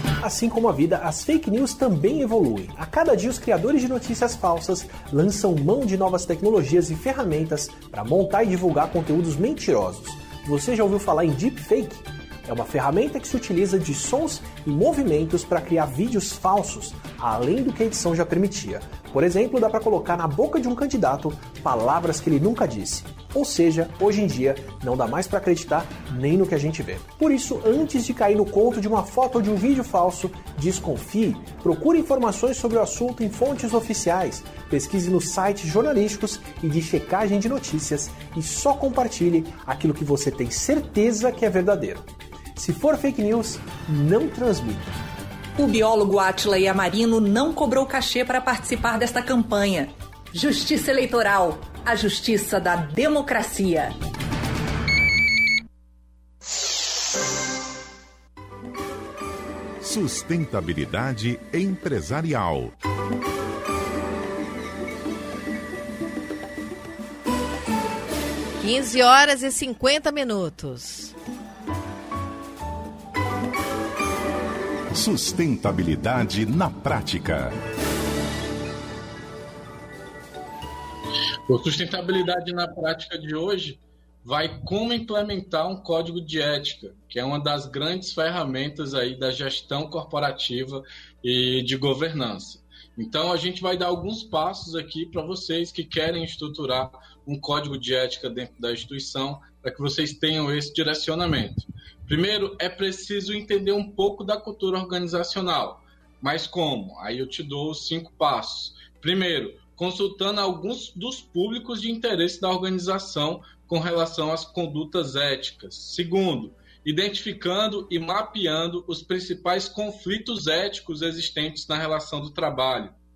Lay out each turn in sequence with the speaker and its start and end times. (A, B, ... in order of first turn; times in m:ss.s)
0:00.2-0:45.0 A
0:45.6-0:54.0 B
0:59.8-1:02.7 C
1:08.6-1:11.1 D
1:14.9-1:17.6 C
1:21.5-2:03.0 E